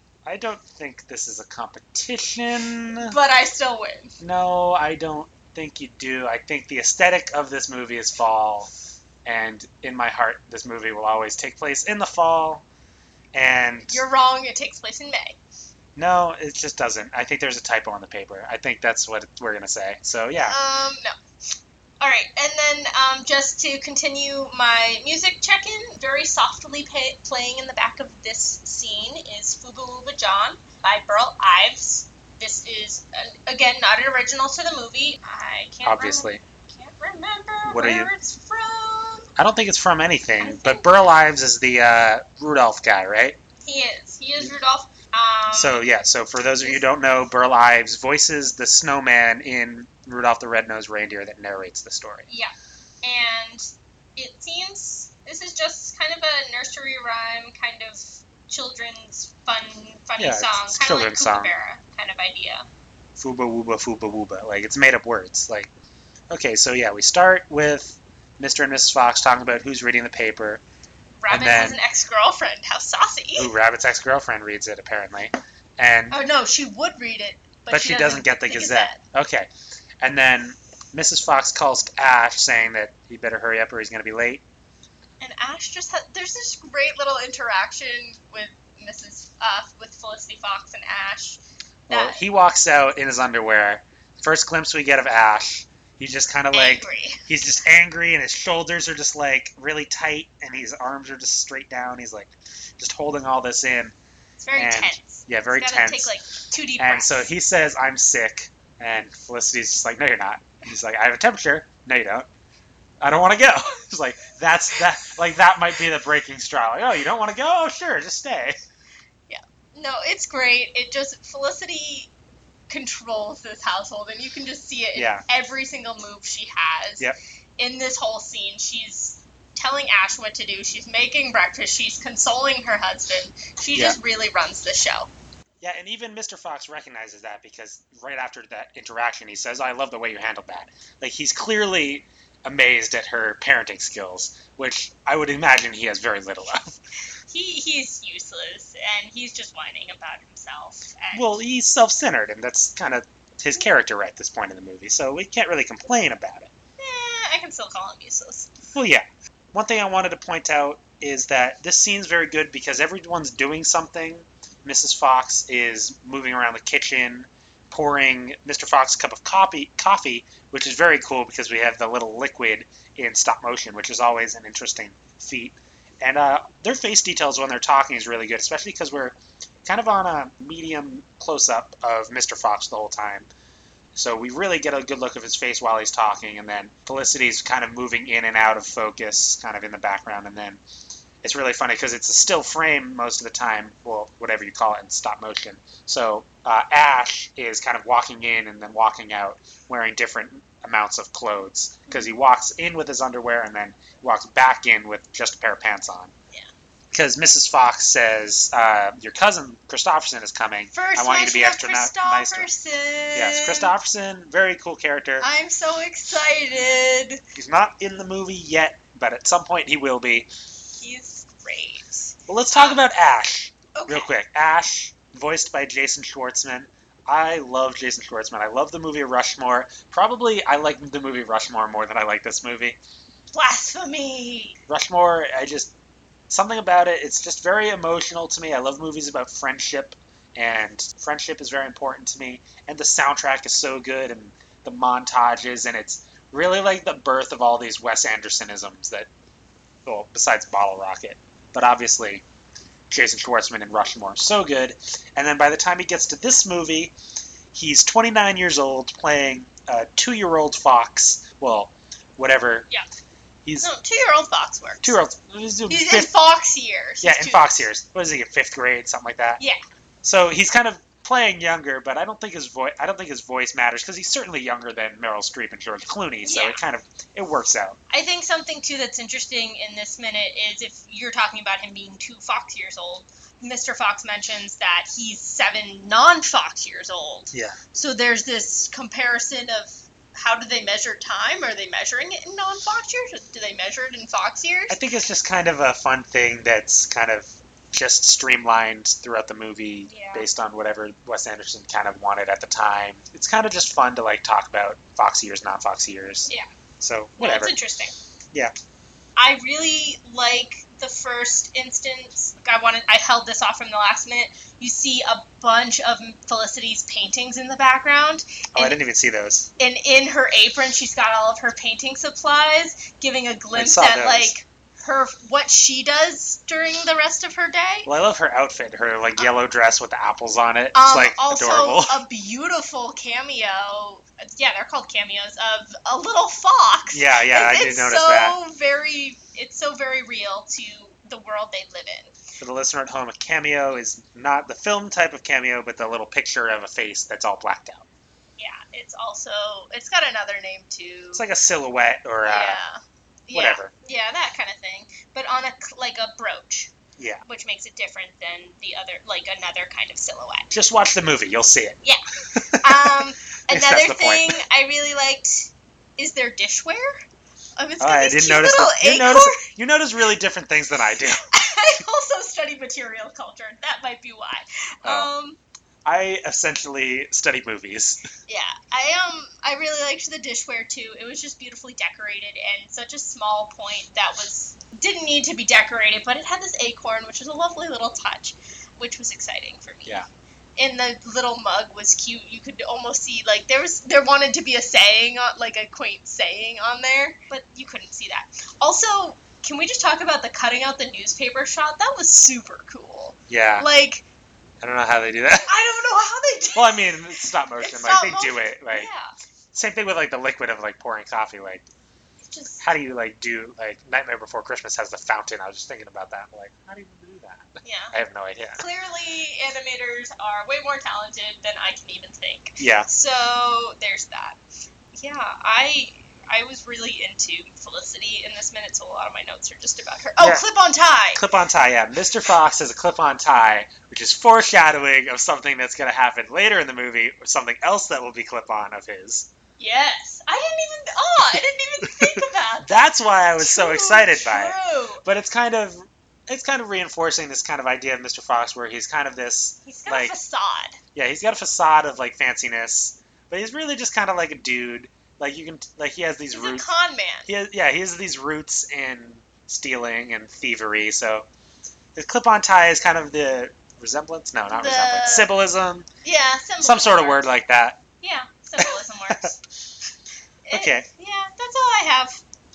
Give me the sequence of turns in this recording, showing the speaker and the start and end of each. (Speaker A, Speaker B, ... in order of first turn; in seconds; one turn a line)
Speaker A: 0.3-3.1
Speaker B: 3.0-4.2
Speaker A: 4.2-8.7
Speaker A: 9.2-12.7
Speaker A: 13.3-14.0
Speaker B: 13.9-15.4
Speaker A: 16.0-20.6
Speaker B: 20.4-21.1
Speaker B: 22.0-39.3
Speaker A: 35.8-36.4
Speaker A: 37.6-38.1
Speaker A: 39.4-43.4
Speaker B: 40.4-40.9
Speaker B: 43.6-45.8
Speaker A: 45.5-52.3
Speaker B: 52.3-62.7
Speaker A: 60.2-61.5
Speaker A: 63.2-65.7
Speaker A: 66.3-70.6
Speaker B: 71.2-73.5
Speaker A: 71.3-71.8
Speaker A: 73.4-76.2
Speaker B: 76.1-79.0
Speaker A: 77.7-79.5
Speaker A: 80.0-84.4
Speaker B: 85.2-92.2
Speaker A: 91.9-103.9
Speaker B: 96.5-97.2
Speaker B: 104.4-107.3
Speaker A: 104.6-106.2
Speaker A: 106.8-112.3
Speaker A: 113.0-118.6
Speaker B: 119.3-122.1
Speaker B: 122.7-127.1
Speaker A: 125.0-125.3
Speaker B: 127.6-135.1
Speaker A: 135.6-146.8
Speaker B: 147.3-151.4
Speaker A: 151.1-156.5
Speaker B: 156.8-158.5
Speaker A: 158.7-183.3
Speaker A: 183.9-190.6
Speaker A: 191.2-206.1
Speaker A: 206.9-212.5
Speaker B: 210.7-213.7
Speaker A: 213.1-215.3
Speaker B: 215.2-217.2
Speaker A: 217.3-220.3
Speaker B: 220.7-222.8
Speaker A: 222.3-232.8
Speaker B: 223.8-224.1
Speaker B: 233.3-234.6
Speaker A: 234.7-235.7
Speaker A: 236.3-249.1
Speaker A: 249.9-252.2
Speaker A: 252.9-256.9
Speaker A: 257.5-262.7
Speaker A: 263.4-263.7
Speaker B: 263.6-264.9
Speaker A: 264.8-266.1
Speaker B: 265.7-267.6
Speaker A: 267.0-269.4
Speaker A: 270.0-277.8
Speaker B: 276.2-276.6
Speaker B: 277.9-294.8
Speaker A: 287.3-287.6
Speaker A: 294.7-307.6
Speaker B: 299.9-300.3
Speaker B: 307.2-307.9
Speaker B: 309.2-318.8
Speaker A: 318.5-319.5
Speaker B: 319.6-327.9
Speaker A: 323.5-324.3
Speaker A: 327.9-332.0
Speaker B: 330.7-342.1
Speaker A: 336.9-338.4
Speaker A: 342.4-347.9
Speaker B: 348.4-351.3
Speaker A: 351.1-352.6
Speaker B: 352.2-356.7
Speaker A: 353.3-353.7
Speaker A: 357.0-357.2
Speaker B: 357.3-360.5
Speaker A: 360.5-361.8
Speaker A: 362.3-364.4
Speaker B: 362.6-367.0
Speaker B: 367.6-369.4
Speaker A: 367.8-371.3
Speaker B: 371.1-375.4
Speaker A: 374.8-375.1
Speaker A: 375.9-378.0
Speaker B: 378.3-390.0
Speaker B: 390.6-404.1
Speaker A: 403.3-403.7
Speaker A: 404.6-405.5
Speaker B: 405.4-409.1
Speaker A: 406.6-408.9
Speaker A: 409.5-411.6
Speaker B: 412.2-412.6
Speaker A: 412.6-418.6
Speaker B: 417.6-417.9
Speaker B: 418.6-424.4
Speaker A: 422.6-422.9
Speaker B: 424.9-431.2
Speaker A: 430.2-430.4
Speaker A: 431.1-439.3
Speaker B: 439.6-445.0
Speaker A: 442.7-450.1
Speaker B: 449.7-450.8
Speaker A: 450.9-456.7
Speaker B: 456.3-457.3
Speaker A: 457.3-461.3
Speaker A: 462.0-465.9
Speaker B: 464.5-465.3
Speaker B: 466.0-467.3
Speaker A: 466.6-467.8
Speaker B: 468.0-469.4
Speaker A: 468.6-469.2
Speaker B: 470.4-472.2
Speaker A: 470.5-470.9